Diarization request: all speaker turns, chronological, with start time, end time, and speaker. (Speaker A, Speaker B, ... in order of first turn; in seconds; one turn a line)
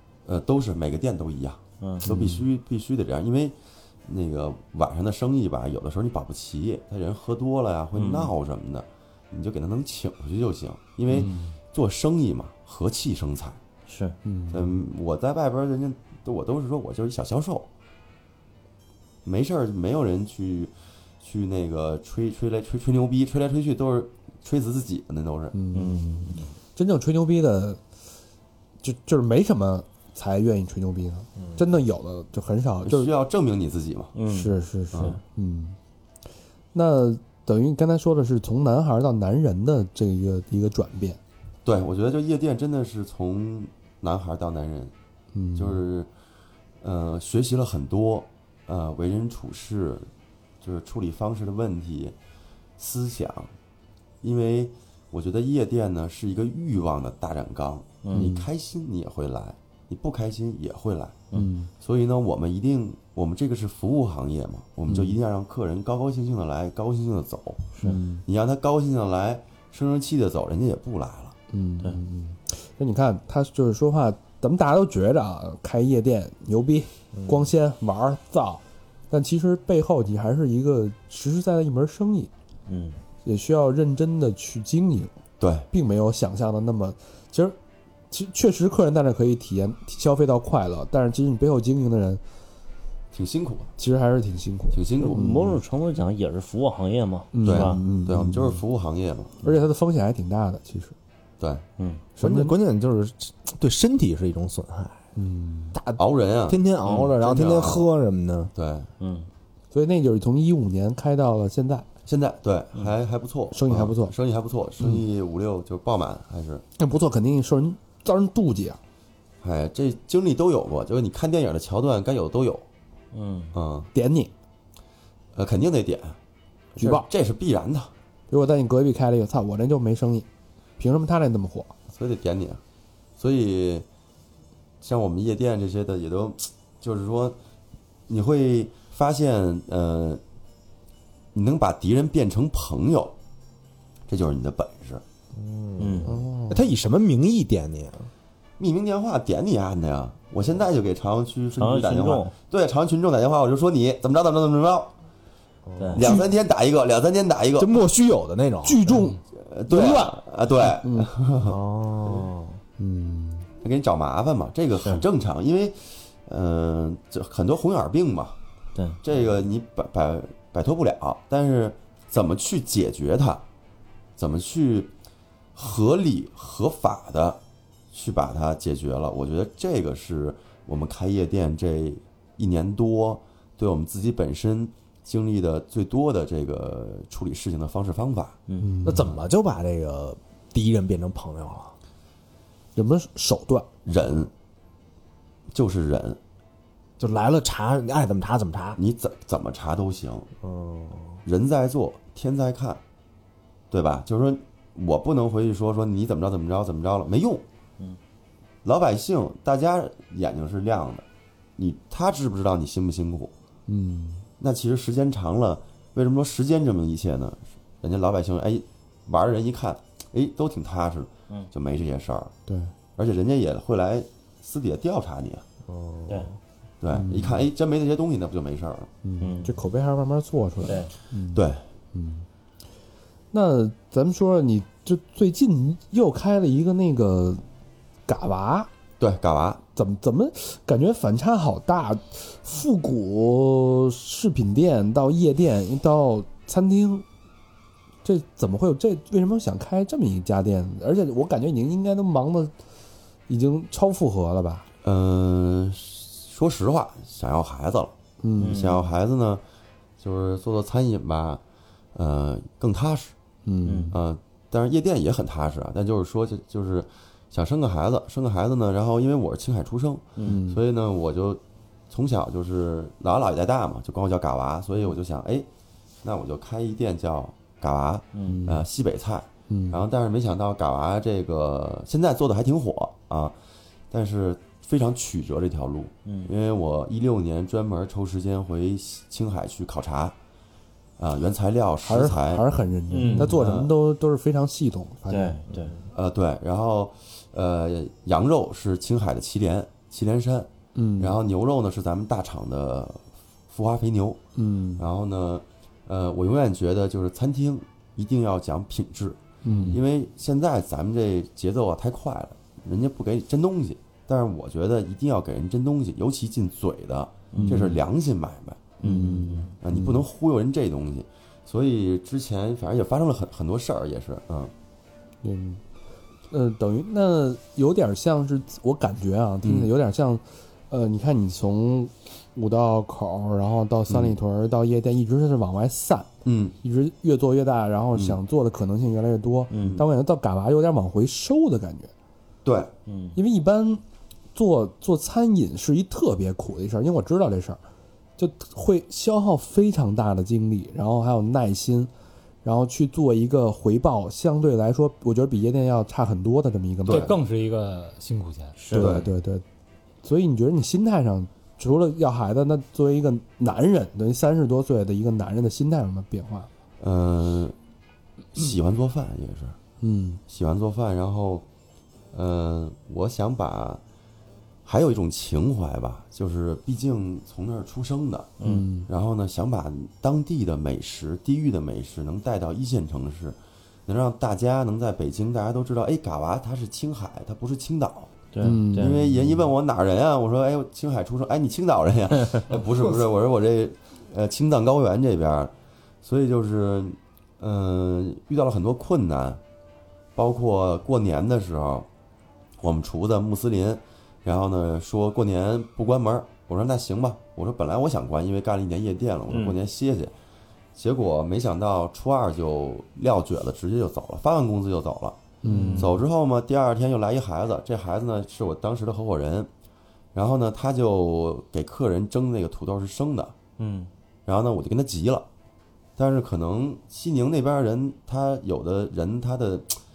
Speaker A: 0.2-13.6
Speaker B: 1.8-2.3
Speaker C: 2.1-2.4
Speaker B: 8.0-8.3
Speaker D: 11.1-11.4
Speaker B: 13.9-14.2
Speaker C: 14.2-14.8
Speaker A: 14.5-17.7
Speaker A: 19.2-25.6
Speaker C: 25.5-27.8
Speaker B: 25.7-26.5
Speaker C: 28.8-33.1
Speaker A: 32.8-34.1
Speaker B: 34.1-35.2
Speaker C: 34.3-35.8
Speaker A: 34.9-35.2
Speaker C: 36.7-41.2
Speaker A: 41.6-44.9
Speaker C: 45.3-45.8
Speaker A: 45.5-46.1
Speaker A: 46.8-50.1
Speaker A: 50.6-52.1
Speaker A: 52.8-53.5
Speaker A: 54.2-61.3
Speaker B: 58.0-58.3
Speaker C: 58.1-58.5
Speaker C: 61.3-61.7
Speaker A: 61.8-67.7
Speaker C: 64.9-65.1
Speaker B: 67.8-68.0
Speaker C: 67.8-68.2
Speaker A: 68.2-71.3
Speaker C: 71.5-82.3
Speaker B: 82.7-83.0
Speaker C: 83.2-85.1
Speaker A: 85.4-85.7
Speaker C: 85.7-87.6
Speaker C: 88.1-92.2
Speaker A: 93.1-93.7
Speaker C: 93.8-95.6
Speaker A: 94.7-95.3
Speaker B: 95.0-97.8
Speaker C: 97.3-98.6
Speaker A: 97.5-99.3
Speaker C: 99.4-101.0
Speaker A: 101.4-101.7
Speaker B: 101.8-102.1
Speaker C: 102.2-102.5
Speaker E: 102.2-105.0
Speaker C: 105.2-105.8
Speaker E: 105.8-108.5
Speaker A: 106.0-106.6
Speaker B: 106.8-107.8
Speaker A: 107.2-107.8
Speaker A: 108.5-108.9
Speaker B: 109.0-109.3
Speaker C: 109.7-111.9
Speaker A: 112.1-116.6
Speaker C: 113.5-114.1
Speaker C: 116.8-118.8
Speaker A: 119.4-122.7
Speaker B: 123.1-123.5
Speaker A: 123.5-123.9
Speaker C: 123.9-124.3
Speaker A: 125.3-126.2
Speaker A: 126.8-127.9
Speaker C: 126.8-127.1
Speaker C: 128.3-130.3
Speaker C: 130.8-131.7
Speaker A: 131.9-132.6
Speaker A: 133.2-133.9
Speaker A: 134.8-137.4
Speaker A: 138.1-140.2
Speaker A: 141.3-143.2
Speaker A: 144.1-145.0
Speaker E: 145.3-148.1
Speaker B: 145.8-146.2
Speaker C: 146.1-146.7
Speaker A: 148.6-154.9
Speaker B: 151.6-152.3
Speaker E: 155.7-156.2
Speaker B: 155.8-156.0
Speaker A: 155.9-157.8
Speaker E: 157.6-159.1
Speaker C: 158.6-159.2
Speaker A: 159.3-161.6
Speaker E: 159.7-160.1
Speaker C: 160.8-161.1
Speaker E: 161.4-162.6
Speaker C: 162.8-163.5
Speaker A: 163.6-168.4
Speaker A: 169.0-173.4
Speaker A: 174.2-174.9
Speaker A: 175.6-177.4
Speaker A: 177.9-188.4
Speaker B: 188.5-188.8
Speaker C: 188.6-189.1
Speaker E: 188.8-191.8
Speaker C: 192.8-193.7
Speaker A: 193.8-194.3
Speaker A: 195.5-196.2
Speaker E: 197.0-198.8
Speaker A: 198.8-200.3
Speaker E: 200.4-201.2
Speaker A: 201.2-202.8
Speaker A: 203.7-207.4
Speaker A: 208.6-211.1
Speaker A: 211.6-213.3
Speaker C: 213.7-214.3
Speaker A: 214.4-222.3
Speaker C: 222.5-222.7
Speaker A: 223.0-225.4
Speaker E: 225.7-226.4
Speaker A: 226.8-228.9
Speaker C: 226.9-227.5
Speaker C: 229.0-232.3
Speaker B: 229.2-229.6
Speaker B: 230.7-230.9
Speaker A: 231.3-231.6
Speaker C: 233.3-237.4
Speaker C: 238.1-238.7
Speaker A: 239.0-239.6
Speaker C: 239.8-247.1
Speaker C: 248.1-252.5
Speaker C: 253.3-254.7
Speaker A: 254.8-259.4
Speaker C: 258.2-258.7
Speaker B: 258.4-258.9
Speaker A: 260.0-261.4
Speaker A: 261.9-263.1
Speaker C: 263.4-264.0
Speaker B: 263.6-264.0
Speaker A: 263.9-275.5
Speaker C: 270.2-270.6
Speaker A: 276.0-283.4
Speaker B: 278.1-278.4
Speaker C: 278.2-278.7
Speaker C: 279.5-279.8
Speaker A: 283.9-290.2
Speaker B: 286.1-286.3
Speaker A: 291.0-292.4
Speaker C: 291.9-295.4
Speaker B: 292.9-293.6
Speaker A: 293.3-293.7
Speaker B: 295.1-295.8
Speaker A: 295.9-304.2
Speaker C: 300.8-301.2
Speaker C: 304.4-304.8
Speaker A: 304.8-318.7
Speaker C: 309.4-309.8
Speaker B: 317.3-317.7
Speaker C: 317.4-317.8
Speaker B: 318.8-319.5
Speaker C: 318.8-320.0
Speaker A: 319.6-324.5
Speaker C: 325.2-325.6
Speaker C: 326.3-336.1
Speaker A: 329.4-329.7
Speaker A: 333.9-334.2
Speaker A: 336.2-336.6
Speaker C: 336.6-341.9
Speaker B: 339.5-339.8
Speaker A: 339.6-339.8
Speaker A: 342.4-342.7
Speaker B: 342.9-343.2
Speaker C: 343.1-343.8
Speaker C: 344.4-347.6
Speaker C: 348.2-351.9
Speaker C: 352.4-357.1
Speaker A: 356.9-357.2
Speaker D: 356.9-358.6
Speaker B: 358.6-359.1
Speaker C: 358.7-359.4
Speaker A: 358.7-359.1
Speaker C: 360.0-366.5
Speaker A: 366.8-367.6
Speaker A: 368.4-369.6
Speaker C: 369.8-370.2
Speaker A: 370.3-371.4
Speaker A: 372.1-373.8
Speaker A: 374.6-378.4
Speaker B: 378.4-378.7
Speaker C: 378.4-378.9
Speaker A: 378.9-388.2
Speaker B: 388.3-389.5
Speaker C: 388.4-389.0
Speaker A: 388.8-399.4
Speaker A: 400.1-401.9
Speaker A: 402.6-410.1
Speaker B: 409.3-409.6
Speaker A: 410.8-415.2
Speaker C: 415.4-415.9
Speaker B: 415.5-416.0
Speaker A: 415.8-419.5
Speaker A: 420.1-423.4
Speaker B: 423.6-423.9
Speaker A: 424.3-425.3
Speaker A: 426.0-429.8